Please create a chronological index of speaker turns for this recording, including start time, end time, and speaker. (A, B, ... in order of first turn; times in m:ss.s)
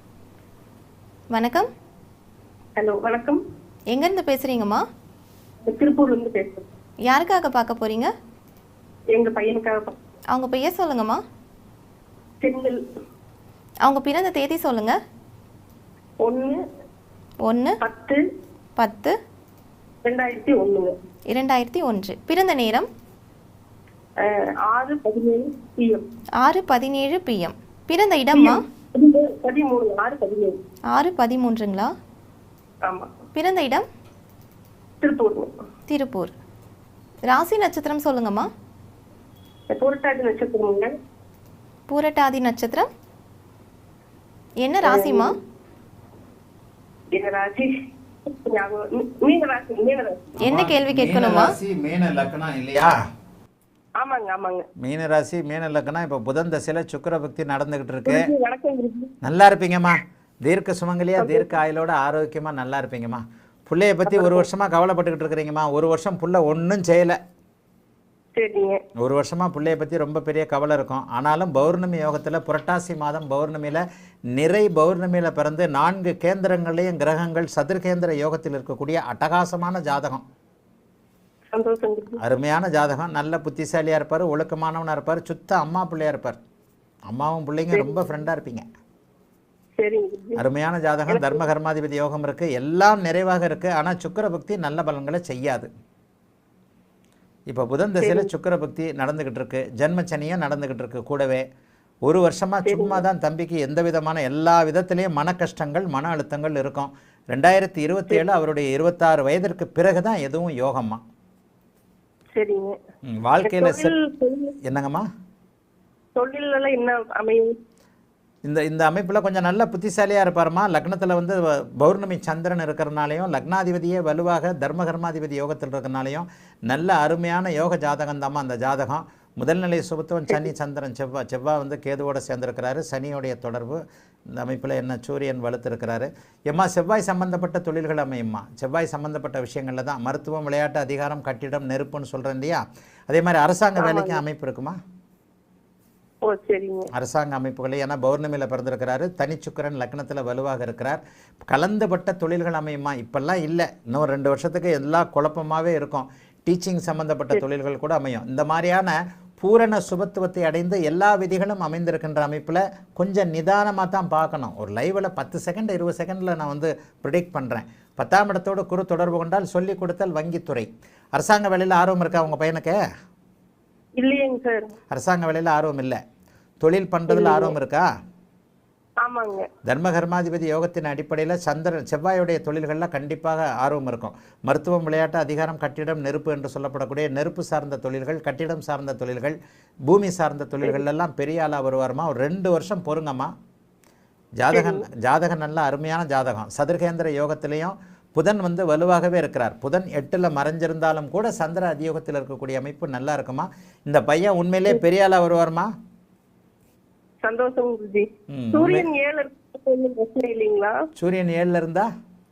0:01.3-0:01.7 A
0:02.8-0:03.4 B
0:03.9-0:04.8 A
0:05.6-0:06.7 B
0:07.1-0:08.1 A
0:09.1-0:10.0 B
0:10.3-0:11.2 A
0:12.4-0:12.8 B
0:13.8-0:14.9 A
0:16.2-0:16.6 B
0:17.4-0:17.8 A
0:17.8-0:18.2 B
0:18.8-0:19.1 A
0:20.0-0:20.9 B
0:21.3-0:22.9 A
0:24.2-0:26.1 B
0:26.4-0:28.6 A
0:28.3-0:30.6 B
0:30.9-0:31.9 A
0:32.8-0:33.1 B
0:33.3-0:33.8 A
0:35.0-0:35.5 B
0:35.9-0:36.3 A
0:37.3-0:38.5 A
0:39.7-0:40.9 B
0:41.9-0:42.9 A
0:44.6-0:45.3 A
0:44.8-0:45.3 B
0:47.1-0:47.7 B
0:48.3-0:50.3 B
0:50.4-0:52.9 C
0:50.4-0:51.5 A
0:54.0-0:54.7 B
0:54.8-0:58.2 C
0:58.1-0:59.1 B
0:59.2-1:07.2 C
1:01.2-1:01.5 B
1:04.1-1:04.5 B
1:08.4-1:08.8 B
1:09.0-1:13.8 C
1:14.3-1:20.2 C
1:21.5-1:22.2 B
1:22.2-1:26.4 C
1:27.1-1:28.6 C
1:27.7-1:28.1 B
1:29.8-1:30.4 B
1:30.4-1:35.7 C
1:31.1-1:31.4 B
1:37.5-1:41.4 C
1:38.0-1:38.3 B
1:42.1-1:51.0 C
1:42.6-1:43.0 B
1:52.3-1:52.7 B
1:53.1-1:53.9 C
1:53.4-1:54.5 B
1:54.6-1:55.0 C
1:56.2-1:57.6 B
1:58.4-2:13.8 C
2:14.4-2:24.8 C
2:23.8-2:24.2 B
2:26.2-2:26.9 B
2:26.9-2:52.8 C
2:54.0-2:54.7 B
2:54.9-2:56.0 C
2:56.6-2:57.9 C
2:57.1-2:57.6 B
2:59.0-2:59.5 B
2:59.6-3:09.3 C
3:09.9-3:13.3 C
3:14.4-3:25.7 C
3:14.5-3:14.8 B
3:27.2-3:30.7 B
3:28.3-3:28.8 C
3:31.0-3:31.9 C